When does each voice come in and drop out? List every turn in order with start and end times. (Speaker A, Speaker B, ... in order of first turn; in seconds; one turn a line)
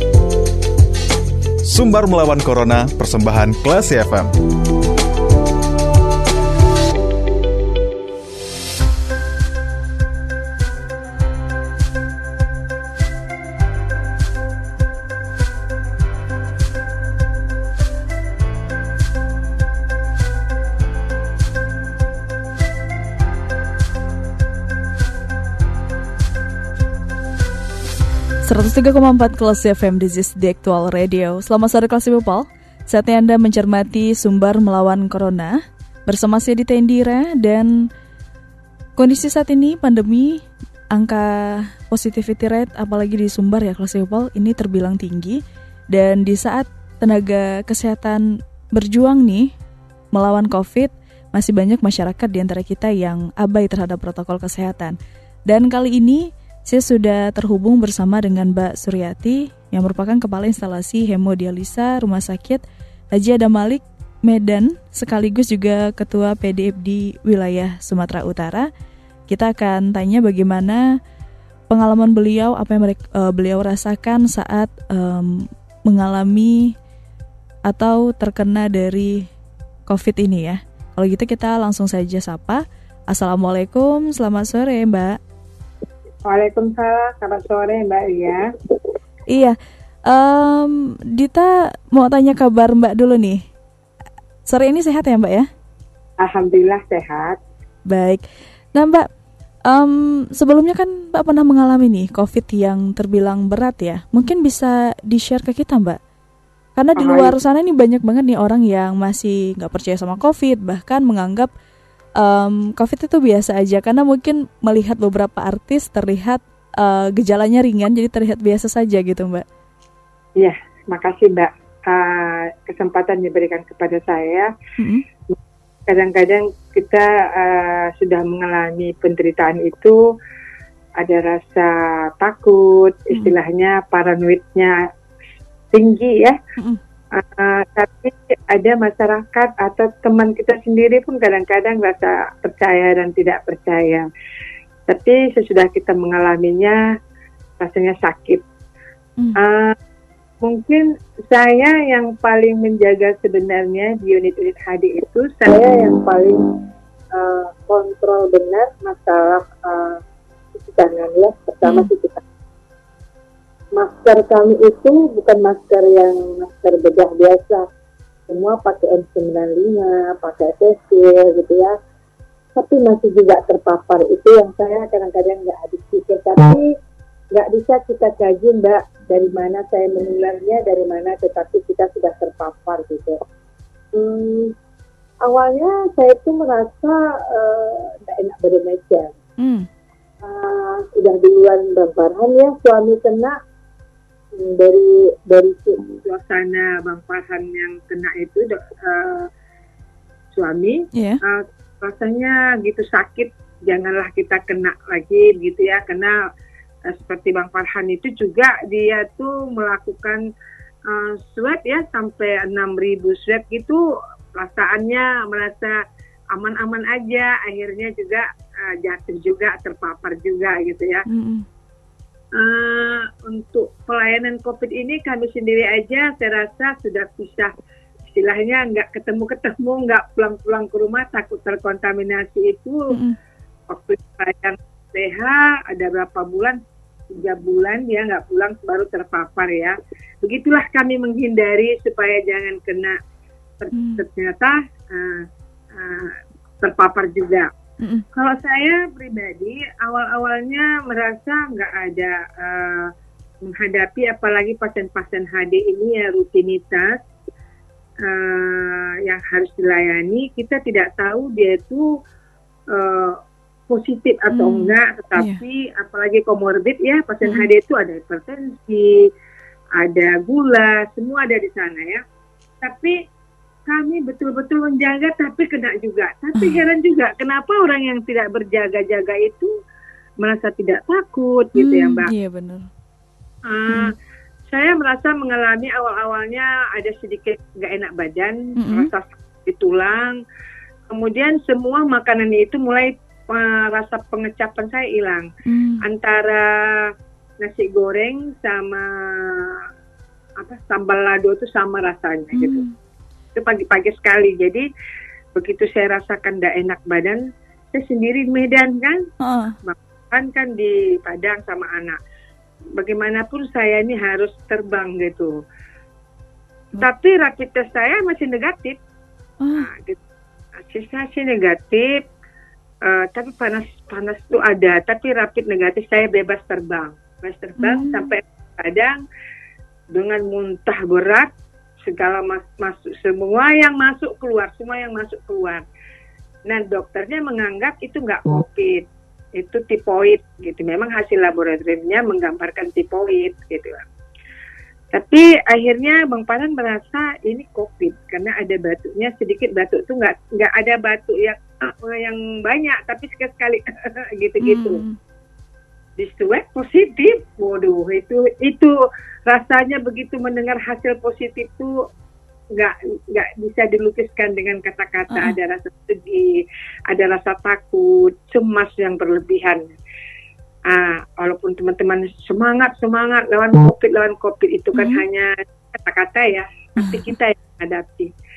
Speaker A: 1.7-4.3
Speaker B: 28.4-37.9
Speaker B: 39.0-49.5
Speaker B: 50.1-55.0
Speaker B: 55.5-62.6
Speaker B: 63.1-68.7
Speaker B: 69.3-71.0
Speaker B: 71.7-76.7
Speaker B: 77.7-79.3
Speaker B: 79.9-85.2
Speaker C: 86.2-88.5
Speaker B: 89.3-93.4
Speaker B: 94.5-95.5
Speaker C: 96.2-97.4
Speaker B: 97.9-98.2
Speaker B: 98.7-99.1
Speaker B: 99.7-106.0
Speaker B: 106.8-111.5
Speaker C: 107.0-107.3
Speaker B: 112.2-119.5
Speaker C: 120.4-124.5
Speaker B: 124.8-125.0
Speaker C: 125.9-130.0
Speaker C: 131.0-134.8
Speaker C: 135.7-136.4
Speaker C: 137.1-144.1
Speaker C: 144.9-146.8
Speaker C: 147.6-148.4
Speaker C: 149.4-149.8
Speaker C: 150.4-156.4
Speaker C: 157.1-160.0
Speaker C: 160.6-162.2
Speaker C: 163.7-167.7
Speaker C: 168.3-171.8
Speaker C: 172.6-176.7
Speaker C: 177.3-183.2
Speaker C: 183.9-184.5
Speaker C: 185.2-189.2
Speaker B: 189.4-189.7
Speaker C: 190.2-193.4
Speaker C: 194.4-199.3
Speaker C: 200.3-206.2
Speaker B: 200.9-201.2
Speaker C: 206.9-210.2
Speaker C: 210.9-213.8
Speaker C: 214.3-215.8
Speaker C: 216.3-221.1
Speaker B: 221.1-221.5
Speaker C: 222.4-227.5
Speaker C: 228.1-232.9
Speaker C: 233.7-243.0
Speaker C: 243.6-247.5
Speaker B: 243.7-244.0
Speaker C: 248.1-252.9
Speaker C: 253.4-257.0
Speaker C: 258.0-261.9
Speaker C: 262.7-263.2
Speaker C: 263.7-269.1
Speaker B: 264.3-265.4
Speaker C: 269.8-272.0
Speaker C: 272.6-273.0
Speaker C: 273.7-279.5
Speaker C: 280.2-282.1
Speaker B: 281.6-282.7
Speaker C: 283.5-283.9
Speaker C: 284.5-290.2
Speaker B: 288.6-288.9
Speaker C: 290.9-295.3
Speaker B: 295.5-295.8
Speaker C: 295.8-299.6
Speaker C: 300.4-302.6
Speaker B: 302.4-302.7
Speaker C: 303.4-304.6
Speaker C: 305.4-309.1
Speaker B: 309.2-309.5
Speaker C: 309.6-312.0
Speaker C: 312.8-315.4
Speaker C: 316.8-318.8
Speaker B: 319.4-319.7
Speaker C: 319.6-320.0
Speaker C: 320.6-322.0
Speaker C: 322.8-329.0
Speaker B: 327.6-328.1
Speaker C: 329.9-331.3
Speaker C: 331.8-335.6
Speaker C: 336.5-343.8
Speaker C: 344.9-354.8
Speaker B: 354.4-355.0
Speaker C: 356.0-358.8
Speaker C: 359.3-361.7
Speaker C: 362.5-369.7
Speaker C: 370.7-378.1
Speaker B: 374.8-375.0
Speaker B: 376.8-377.1